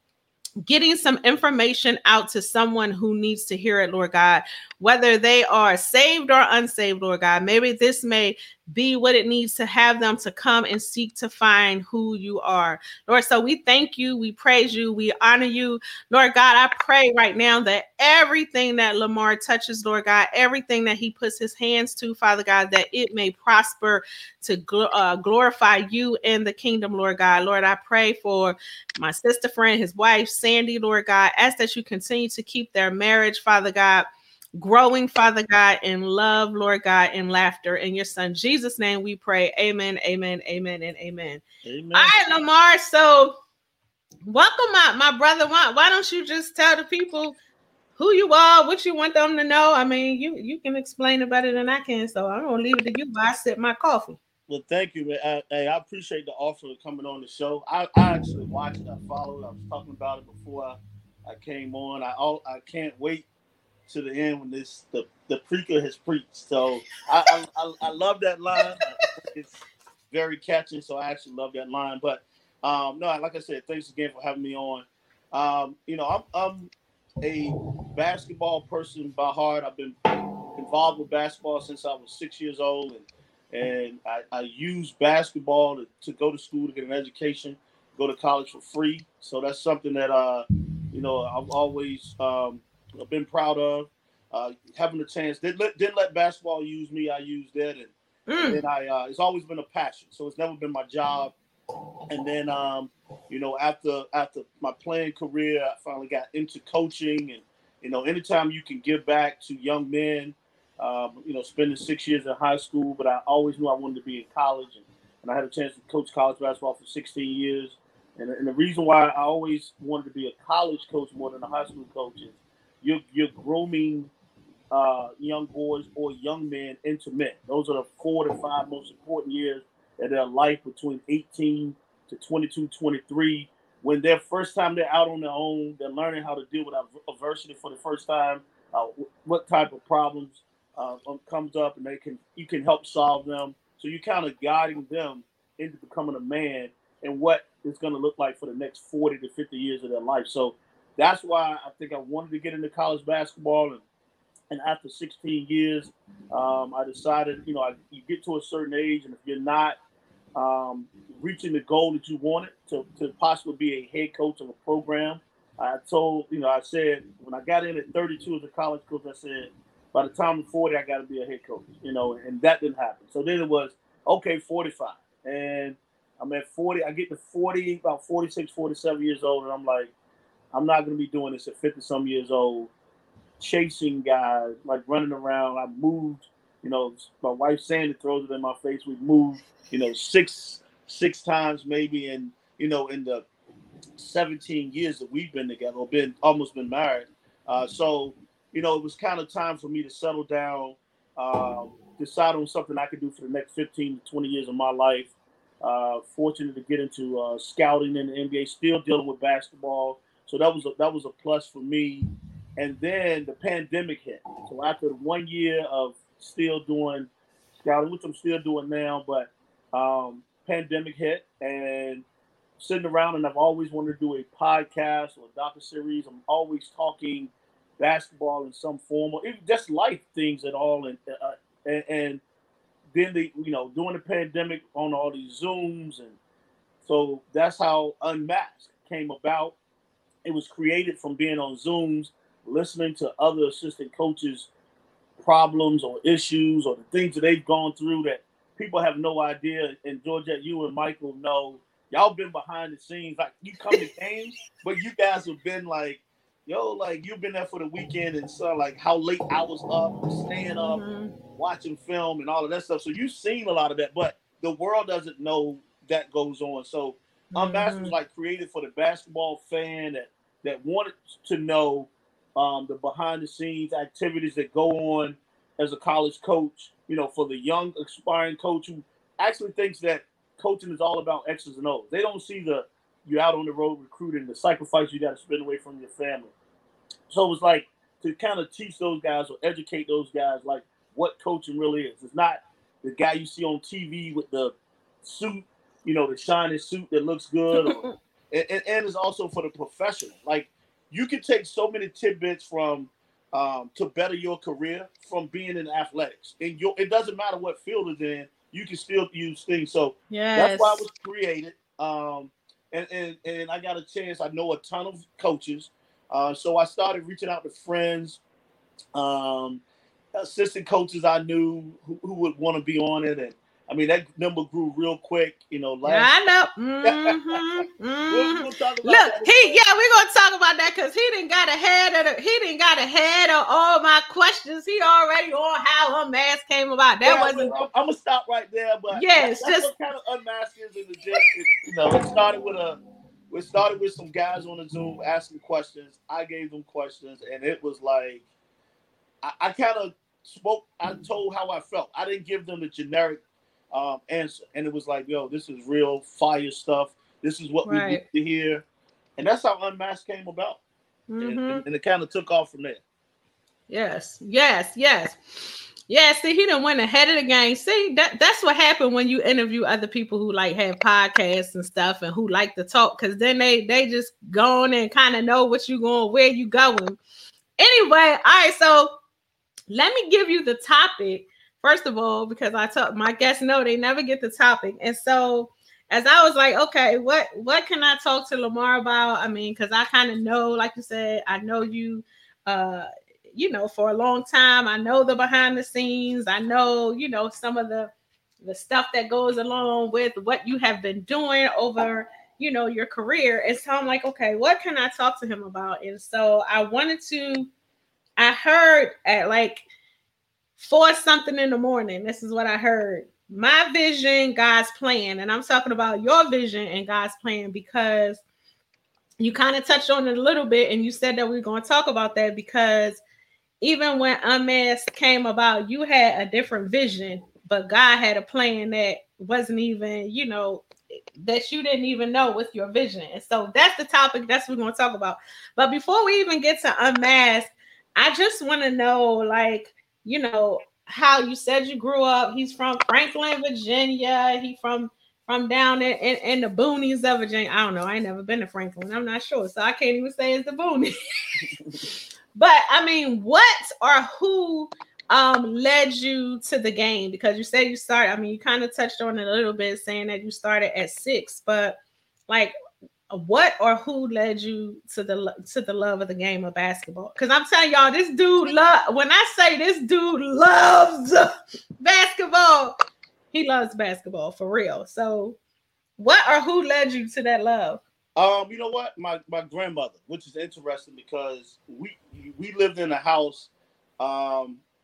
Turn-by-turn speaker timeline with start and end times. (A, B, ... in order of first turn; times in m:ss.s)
0:00.6-0:41.4 A
0:41.6-0:42.1 B
0:41.9-0:43.4 A
0:44.3-0:47.4 A
0:48.0-0:54.2 A
0:54.5-1:03.2 B
1:03.9-1:09.5 B
1:10.1-1:20.0 B
1:20.5-1:37.9 B
1:38.3-1:38.6 A
1:38.4-1:41.3 B
1:42.1-2:04.1 B
2:04.7-2:33.8 B
2:34.5-2:39.8 B
2:40.4-2:59.9 B
3:00.5-3:02.7 B
3:03.4-3:13.2 B
3:14.0-3:32.0 B
3:32.6-3:37.1 B
3:37.6-3:42.0 B
3:42.6-3:52.2 B
3:52.9-3:56.2 B
3:56.8-3:59.5 B
4:00.2-4:04.5 B
4:05.2-4:20.8 B
4:20.6-4:21.1 A
4:21.3-4:46.3 B
4:27.3-4:27.9 A
4:47.1-5:18.2 B
4:57.5-4:57.9 A
5:10.1-5:10.8 A
5:18.9-5:19.6 B
5:20.2-5:26.1 B
5:25.8-5:37.6 A
5:26.8-5:27.4 B
5:28.1-5:29.6 B
5:37.0-5:42.8 B
5:38.9-5:39.7 A
5:43.3-5:48.2 B
5:49.2-5:58.6 B
5:57.6-5:58.0 A
5:59.2-6:00.6 B
6:01.1-6:01.6 A
6:01.2-6:02.8 B
6:03.7-6:17.0 A
6:17.6-6:18.9 A
6:19.7-6:47.5 A
6:48.2-6:49.6 A
6:50.6-6:58.2 A
6:59.2-7:03.0 A
7:03.6-7:10.6 A
7:11.2-7:30.9 A
7:32.4-7:41.8 A
7:43.1-7:52.7 A
7:53.3-7:55.4 A
7:56.0-7:57.8 A
7:58.2-8:04.6 B